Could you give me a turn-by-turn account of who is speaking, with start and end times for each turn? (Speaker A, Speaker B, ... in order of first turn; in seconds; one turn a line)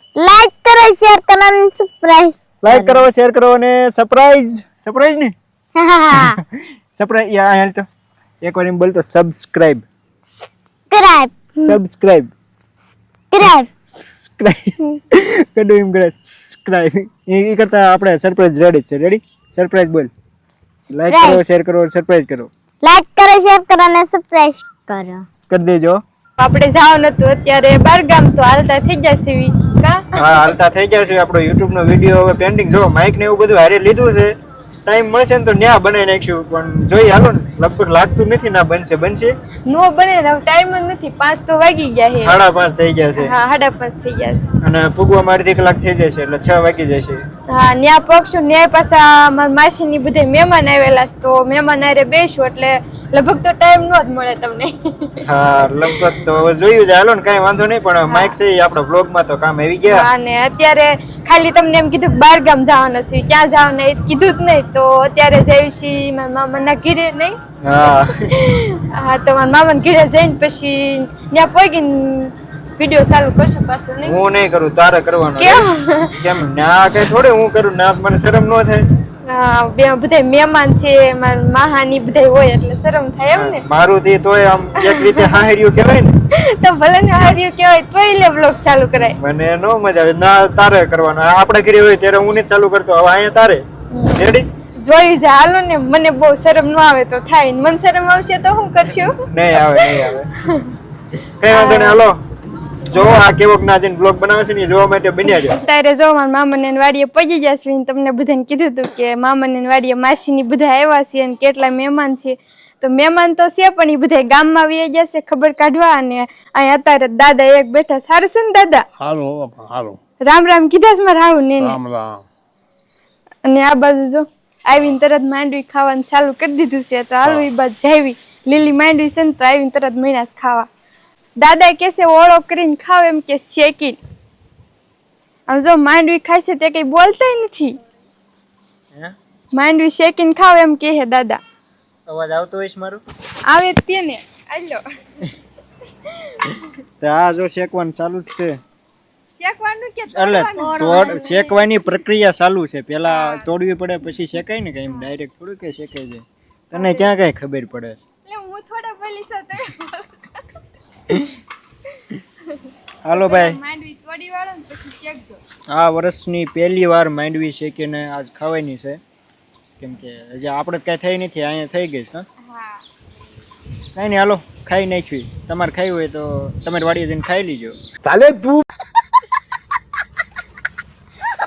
Speaker A: 0.2-3.1
Speaker B: 2.6-5.3
Speaker A: 5.8-6.4
Speaker B: 6.1-6.4
Speaker B: 7.0-7.8
Speaker B: 8.4-9.8
Speaker A: 10.4-11.8
Speaker B: 11.6-12.3
Speaker A: 12.8-13.7
Speaker B: 13.8-20.1
Speaker A: 20.8-21.4
Speaker B: 20.9-22.5
Speaker A: 22.8-25.2
Speaker B: 25.5-26.0
Speaker C: 26.4-30.5
Speaker B: 30.2-34.4
Speaker B: 34.9-39.3
Speaker C: 39.7-42.4
Speaker B: 42.2-43.3
Speaker C: 43.1-44.4
Speaker B: 44.6-47.2
Speaker C: 47.5-55.2
Speaker B: 55.2-60.1
Speaker C: 55.8-56.1
Speaker C: 58.1-58.4
Speaker C: 59.9-74.2
Speaker B: 67.6-68.3
Speaker B: 74.0-78.9
Speaker C: 75.4-76.3
Speaker C: 79.3-83.7
Speaker B: 83.3-86.1
Speaker C: 84.8-85.5
Speaker C: 86.3-89.2
Speaker B: 89.1-94.5
Speaker C: 93.9-100.8
Speaker B: 99.3-100.5
Speaker B: 101.2-102.2
Speaker C: 101.5-102.0
Speaker B: 102.9-105.6
Speaker C: 105.2-118.9
Speaker D: 119.0-120.0
Speaker C: 120.3-121.8
Speaker D: 121.6-122.3
Speaker C: 123.5-130.7
Speaker C: 131.4-134.0
Speaker C: 135.5-137.8
Speaker C: 139.5-141.4
Speaker B: 142.1-143.0
Speaker C: 143.5-144.8
Speaker C: 146.0-146.8
Speaker B: 147.0-148.6
Speaker C: 149.4-151.7
Speaker B: 150.1-158.0
Speaker C: 153.1-153.5
Speaker C: 154.9-155.1
Speaker C: 156.7-157.1
Speaker C: 158.2-160.6
Speaker C: 161.9-165.4
Speaker B: 163.0-163.6
Speaker B: 165.7-169.0
Speaker B: 169.8-172.3
Speaker C: 172.4-172.8
Speaker B: 173.9-177.8
Speaker D: 178.0-178.7